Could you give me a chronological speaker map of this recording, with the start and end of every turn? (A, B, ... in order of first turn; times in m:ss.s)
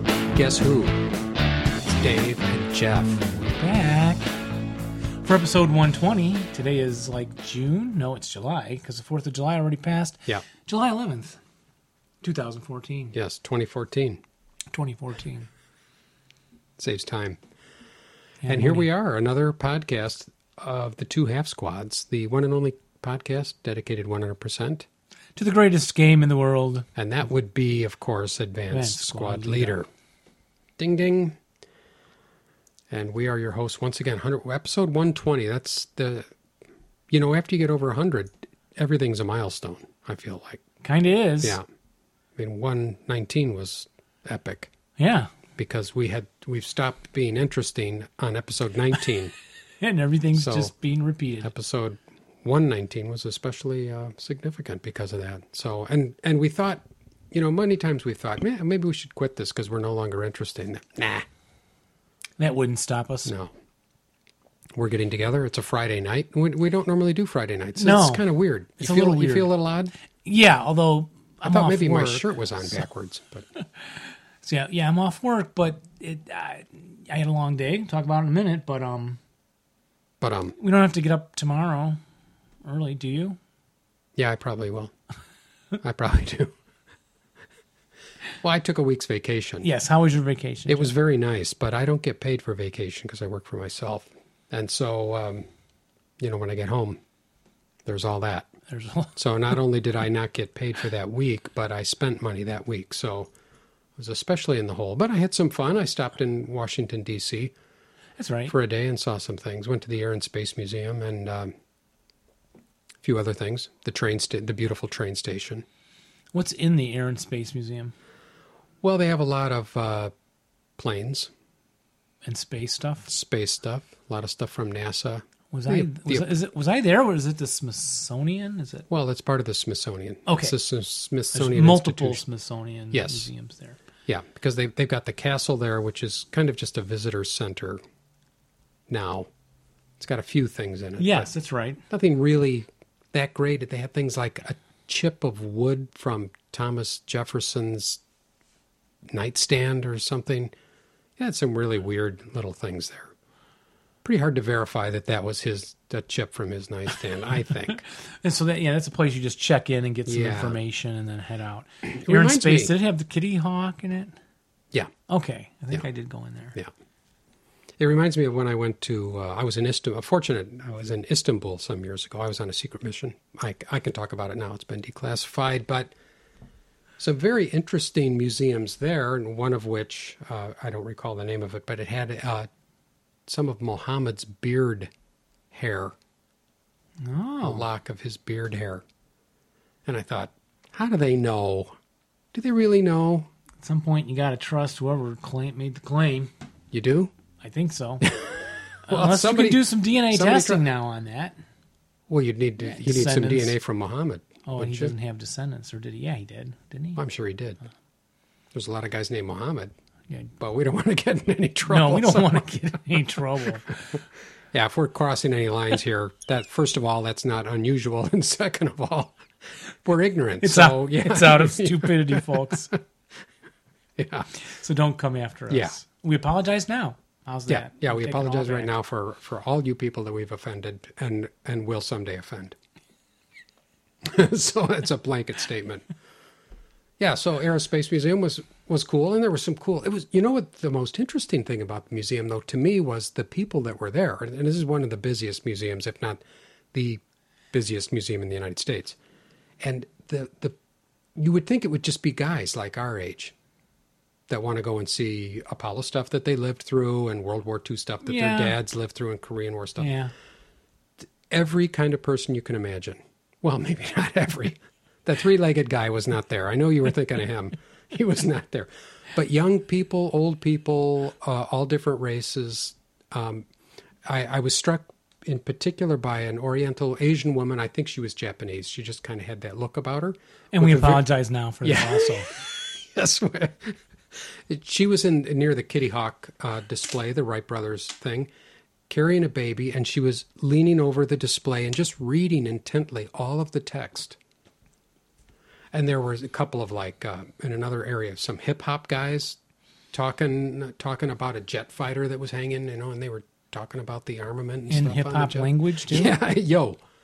0:00.3-0:01.0 A
0:01.9-0:03.3 A
0:03.4-0:04.3 B
0:05.2-0:11.4 B
0:12.2-0:13.1 B
0:13.1-0:14.2 A
0:14.7-0:15.5 B
0:16.8-0:17.4 A
0:18.4-0:18.9 B
0:18.5-0:24.8 A
0:25.4-0:26.9 B
0:27.0-0:29.9 A
0:28.7-0:29.8 B
0:30.8-0:31.4 A
0:32.9-0:36.3 A
0:37.1-0:40.6 A
0:40.8-0:41.6 B
0:42.4-0:44.7 A
0:45.0-0:45.3 B
0:45.6-0:49.3 A
0:49.8-0:51.5 B
0:50.3-0:50.7 A
0:51.4-1:01.3 A
1:02.4-1:03.3 B
1:03.2-1:03.5 A
1:04.7-1:09.9 A
1:07.8-1:08.2 B
1:08.8-1:09.5 B
1:10.2-1:12.8 B
1:11.4-1:13.4 A
1:13.6-1:19.2 B
1:20.2-1:20.6 A
1:20.6-1:22.0 B
1:22.6-1:23.4 B
1:24.2-1:24.9 A
1:25.8-1:26.5 A
1:28.4-1:29.7 A
1:29.6-1:30.9 B
1:30.7-1:35.5 A
1:36.2-1:37.0 A
1:37.8-1:38.5 A
1:38.7-1:39.1 B
1:39.2-1:43.3 A
1:44.0-1:47.5 A
1:48.2-1:48.5 B
1:48.5-1:51.5 A
1:53.0-1:55.6 A
1:56.3-1:57.9 B
1:58.8-2:00.1 A
2:00.8-2:01.3 A
2:02.2-2:03.1 B
2:03.1-2:06.3 A
2:05.5-2:08.9 B
2:08.9-2:12.2 A
2:10.2-2:10.6 B
2:11.3-2:13.8 B
2:12.9-2:13.3 A
2:14.0-2:17.8 A
2:18.9-2:19.3 A
2:20.0-2:21.3 A
2:21.0-2:21.8 B
2:21.9-2:28.0 A
2:29.1-2:30.5 A
2:31.2-2:33.1 A
2:34.0-2:37.8 A
2:37.9-2:44.1 B
2:40.0-2:40.6 A
2:41.8-2:42.7 A
2:45.1-2:46.6 B
2:47.8-2:55.9 A
2:57.0-3:02.5 A
3:03.3-3:04.9 A
3:05.5-3:05.9 A
3:07.0-3:07.6 B
3:07.4-3:08.8 A
3:09.8-3:11.8 A
3:12.3-3:13.3 A
3:13.6-3:16.3 B
3:16.7-3:17.1 A
3:17.4-3:18.1 B
3:18.0-3:20.6 A
3:18.9-3:21.4 B
3:22.1-3:24.9 A
3:22.6-3:23.5 B
3:24.4-3:27.0 B
3:27.0-3:27.6 A
3:28.5-3:29.7 A
3:30.4-3:32.5 A
3:31.7-3:33.9 B
3:34.5-3:39.2 A
3:39.8-3:42.8 A
3:40.4-3:42.7 B
3:44.0-3:44.3 A
3:44.4-3:48.7 B
3:45.5-3:45.8 A
3:47.5-3:52.5 A
3:54.0-3:55.8 A
3:57.0-4:06.2 A
4:06.7-4:07.0 A
4:07.5-4:09.0 A
4:09.6-4:10.6 A
4:11.1-4:13.3 A
4:14.3-4:19.9 A
4:18.0-4:18.6 B
4:19.8-4:20.1 B
4:21.3-4:33.4 A
4:34.0-4:41.0 A
4:40.5-4:42.3 B
4:41.6-4:48.3 A
4:48.9-4:54.2 A
4:55.7-4:59.4 A
4:59.9-5:06.8 A
5:04.7-5:06.2 B